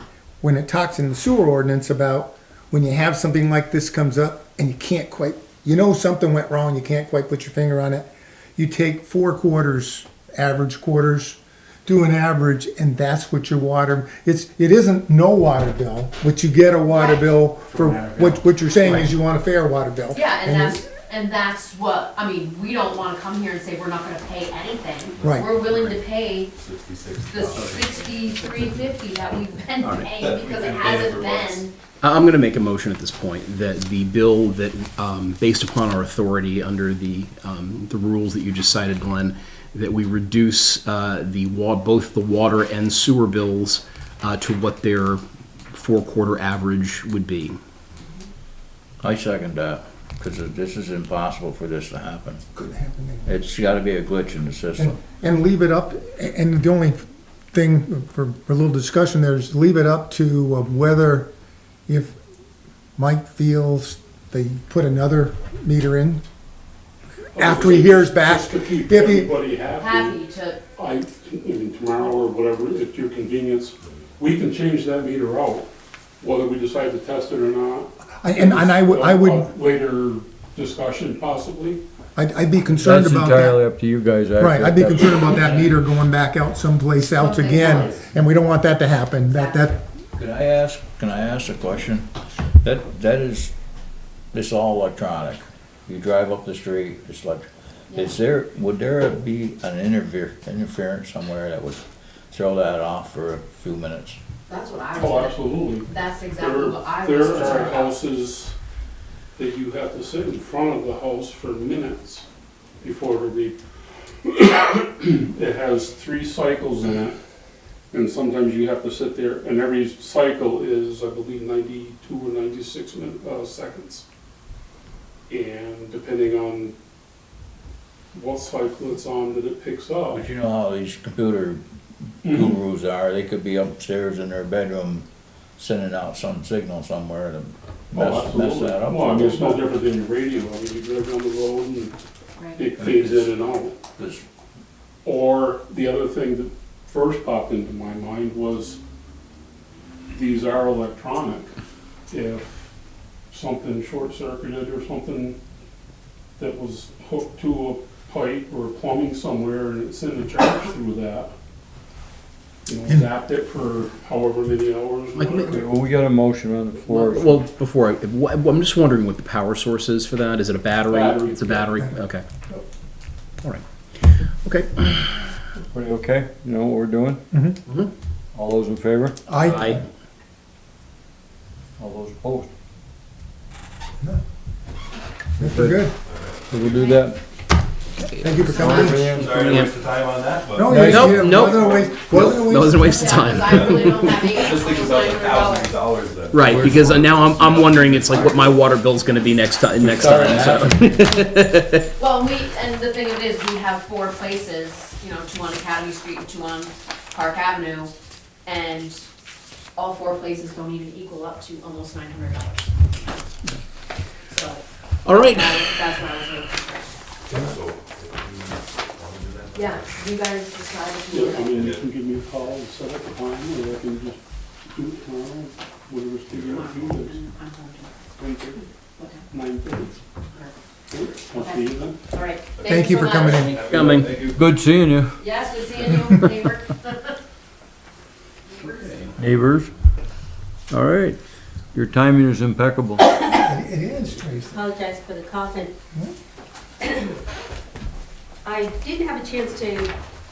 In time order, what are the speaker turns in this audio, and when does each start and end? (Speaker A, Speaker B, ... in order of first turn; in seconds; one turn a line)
Speaker A: 0.4-20.9
Speaker B: 17.7-19.1
Speaker C: 20.1-26.5
Speaker D: 25.2-28.5
Speaker A: 25.2-25.6
Speaker C: 27.2-31.7
Speaker E: 29.8-30.1
Speaker D: 30.2-31.6
Speaker E: 32.0-47.6
Speaker F: 49.0-52.4
Speaker A: 52.5-53.3
Speaker F: 53.2-55.0
Speaker A: 54.8-57.0
Speaker A: 57.5-61.3
Speaker A: 61.9-62.2
Speaker A: 63.0-66.2
Speaker A: 67.4-69.3
Speaker B: 67.4-70.2
Speaker C: 69.8-70.6
Speaker B: 70.8-75.7
Speaker B: 76.2-81.8
Speaker A: 78.2-79.5
Speaker A: 82.2-83.6
Speaker G: 82.7-85.4
Speaker A: 84.4-89.8
Speaker B: 85.5-85.7
Speaker C: 87.1-87.9
Speaker C: 89.3-89.8
Speaker F: 90.2-92.1
Speaker F: 92.6-93.5
Speaker F: 94.3-104.2
Speaker C: 97.9-98.2
Speaker C: 104.5-108.0
Speaker B: 105.0-108.5
Speaker B: 109.4-112.3
Speaker B: 112.8-113.6
Speaker B: 114.2-117.2
Speaker B: 117.9-124.0
Speaker B: 125.3-126.7
Speaker B: 128.1-130.3
Speaker F: 130.1-131.6
Speaker F: 132.2-139.6
Speaker B: 132.2-132.6
Speaker B: 137.9-141.9
Speaker B: 142.6-143.8
Speaker F: 142.8-143.3
Speaker F: 143.9-144.2
Speaker B: 145.1-148.8
Speaker B: 150.1-151.5
Speaker B: 152.1-152.7
Speaker B: 153.3-155.4
Speaker B: 156.4-161.3
Speaker B: 162.7-165.7
Speaker E: 165.1-165.6
Speaker G: 165.4-167.4
Speaker E: 166.9-172.2
Speaker B: 170.9-171.8
Speaker E: 173.4-175.3
Speaker G: 175.7-177.2
Speaker A: 177.3-177.6
Speaker G: 178.3-179.2
Speaker A: 179.3-179.8
Speaker E: 179.4-179.8
Speaker G: 181.8-182.5
Speaker A: 185.4-185.9
Speaker G: 185.4-185.9
Speaker D: 186.1-186.9
Speaker G: 186.5-187.2
Speaker E: 188.2-189.7
Speaker A: 188.2-189.1
Speaker G: 188.5-189.4
Speaker D: 188.7-191.6
Speaker A: 190.5-193.4
Speaker G: 190.7-191.1
Speaker E: 190.8-194.1
Speaker C: 192.8-195.8
Speaker D: 193.5-198.7
Speaker E: 196.3-201.8
Speaker G: 196.4-197.2
Speaker G: 199.8-200.9
Speaker D: 200.2-200.6
Speaker C: 201.9-207.9
Speaker C: 208.4-209.1
Speaker C: 209.8-212.7
Speaker C: 214.3-216.9
Speaker E: 215.1-215.7
Speaker D: 217.3-219.9
Speaker C: 219.5-221.6
Speaker B: 221.1-227.2
Speaker D: 221.5-221.8
Speaker D: 226.3-226.7
Speaker C: 226.5-228.0
Speaker B: 228.2-228.6
Speaker B: 229.3-230.0
Speaker B: 230.9-232.0
Speaker C: 231.3-233.6
Speaker D: 232.6-234.5
Speaker A: 232.6-233.6
Speaker E: 233.7-234.1
Speaker G: 234.3-235.2
Speaker C: 235.2-237.2
Speaker C: 238.5-239.2
Speaker G: 239.2-239.7
Speaker G: 240.7-241.2
Speaker G: 241.7-243.0
Speaker A: 243.2-244.6
Speaker H: 244.5-245.7
Speaker H: 246.8-247.1
Speaker H: 248.4-249.9